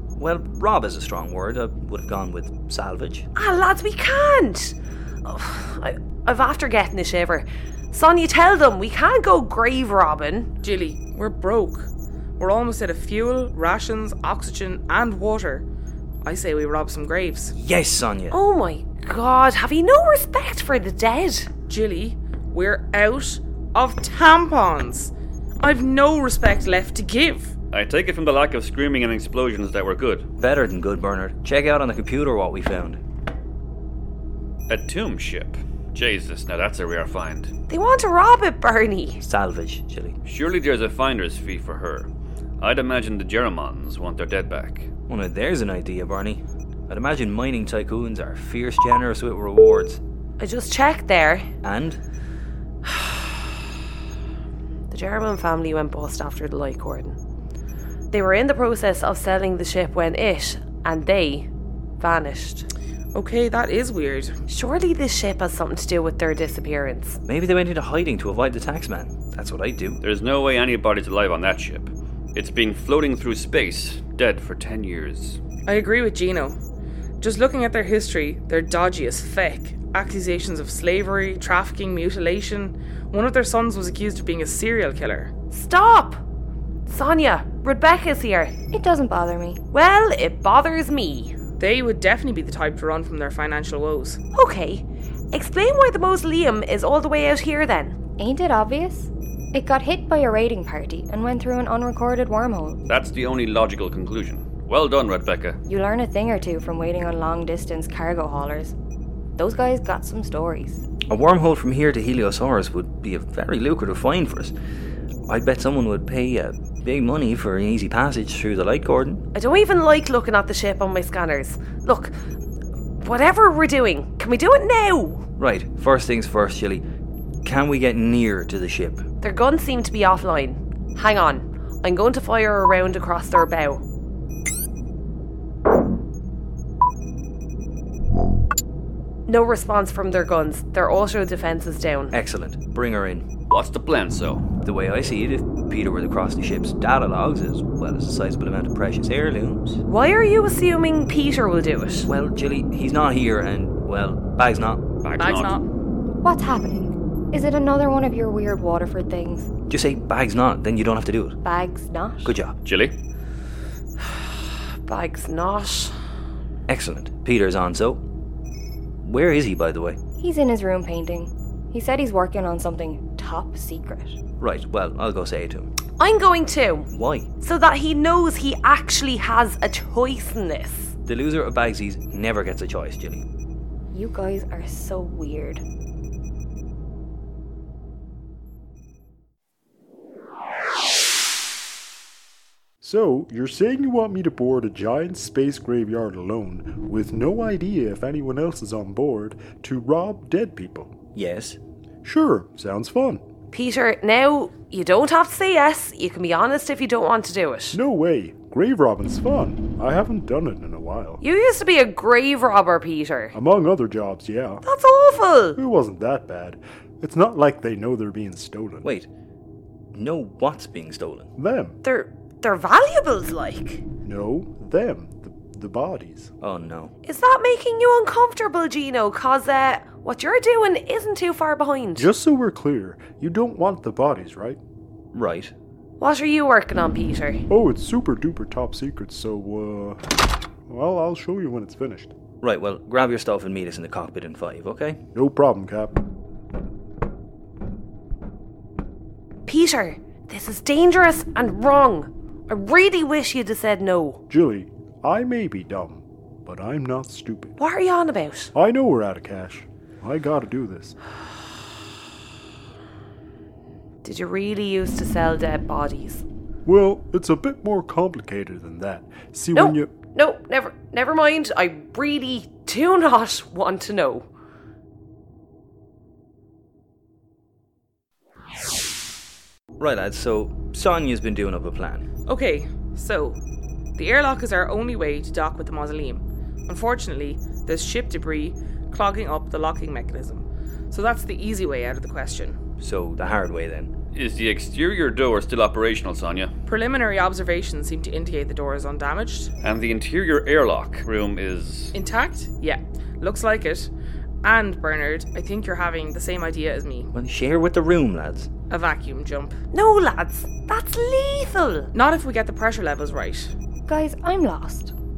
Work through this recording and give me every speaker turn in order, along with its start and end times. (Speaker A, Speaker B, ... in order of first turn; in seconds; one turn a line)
Speaker A: 0.1-3.3
Speaker B: 3.3-10.5
Speaker C: 10.6-15.6
Speaker C: 16.2-17.5
Speaker A: 17.5-18.4
Speaker B: 18.3-21.5
Speaker C: 21.7-27.5
Speaker D: 27.7-30.2
Speaker A: 30.4-33.0
Speaker D: 34.7-37.5
Speaker B: 37.7-39.2
Speaker A: 39.2-40.1
Speaker D: 40.2-42.1
Speaker D: 42.6-44.9
Speaker A: 45.1-50.0
Speaker B: 50.4-51.5
Speaker A: 51.6-52.0
Speaker B: 52.8-53.4
Speaker B: 54.9-57.1
Speaker B: 58.1-61.5
Speaker B: 62.0-62.7
Speaker C: 63.1-64.4
Speaker B: 64.5-67.2
Speaker A: 67.3-70.0
Speaker D: 70.0-75.4
Speaker C: 75.7-76.6
Speaker C: 77.2-85.3
Speaker B: 85.5-86.2
Speaker B: 86.9-88.5
Speaker E: 88.7-89.6
Speaker B: 89.7-91.3
Speaker C: 91.6-94.2
Speaker B: 94.3-98.0
Speaker E: 98.2-102.8
Speaker D: 102.9-105.6
Speaker E: 105.7-108.7
Speaker E: 109.4-110.8
Speaker A: 111.1-114.5
Speaker A: 115.3-119.2
Speaker B: 119.3-122.1
Speaker B: 123.0-125.2
Speaker A: 125.4-126.8
Speaker A: 127.4-129.0
Speaker B: 129.2-133.8
Speaker B: 139.3-142.1
Speaker A: 142.1-143.2
Speaker D: 143.5-144.4
Speaker A: 144.6-149.8
Speaker B: 149.9-152.1
Speaker A: 152.1-154.8
Speaker D: 155.0-155.6
Speaker C: 155.2-155.6
Speaker E: 156.2-159.5
Speaker A: 159.7-161.4
Speaker E: 161.4-162.3
Speaker A: 162.2-162.6
Speaker D: 162.6-162.9
Speaker B: 164.8-165.9
Speaker A: 166.7-168.0
Speaker A: 169.0-170.0
Speaker E: 170.2-174.2
Speaker A: 174.4-175.7
Speaker B: 176.0-176.9
Speaker A: 176.9-177.3
Speaker B: 177.4-180.9
Speaker A: 181.1-183.2
Speaker E: 183.9-185.6
Speaker F: 192.8-200.9
Speaker A: 201.1-201.6
Speaker F: 202.0-203.2
Speaker B: 203.5-207.8
Speaker F: 207.7-211.2
Speaker B: 211.2-213.3
Speaker F: 213.3-214.6
Speaker B: 214.6-215.6
Speaker F: 215.6-218.9
Speaker A: 218.8-219.1
Speaker A: 219.9-221.3
Speaker F: 221.4-221.8
Speaker B: 221.8-223.8
Speaker F: 224.0-226.3
Speaker A: 226.4-226.9
Speaker B: 227.0-232.1
Speaker F: 231.9-234.6
Speaker A: 235.1-235.5
Speaker B: 236.0-237.4
Speaker F: 237.5-240.0
Speaker F: 240.7-242.1
Speaker A: 242.4-245.0
Speaker F: 245.1-246.0
Speaker B: 249.5-254.2
Speaker F: 254.3-257.5
Speaker B: 257.6-258.5
Speaker F: 258.5-260.9
Speaker B: 264.0-266.2
Speaker F: 266.6-269.9
Speaker B: 269.5-274.3
Speaker A: 279.8-282.1
Speaker C: 282.3-283.4
Speaker C: 283.9-292.6
Speaker A: 292.8-293.9
Speaker D: 294.1-296.5
Speaker C: 296.7-299.5
Speaker D: 299.6-301.9
Speaker C: 301.9-303.9
Speaker C: 304.4-307.1
Speaker A: 307.1-308.5
Speaker C: 308.7-309.6
Speaker B: 309.7-311.9
Speaker C: 311.9-313.5
Speaker E: 313.9-314.9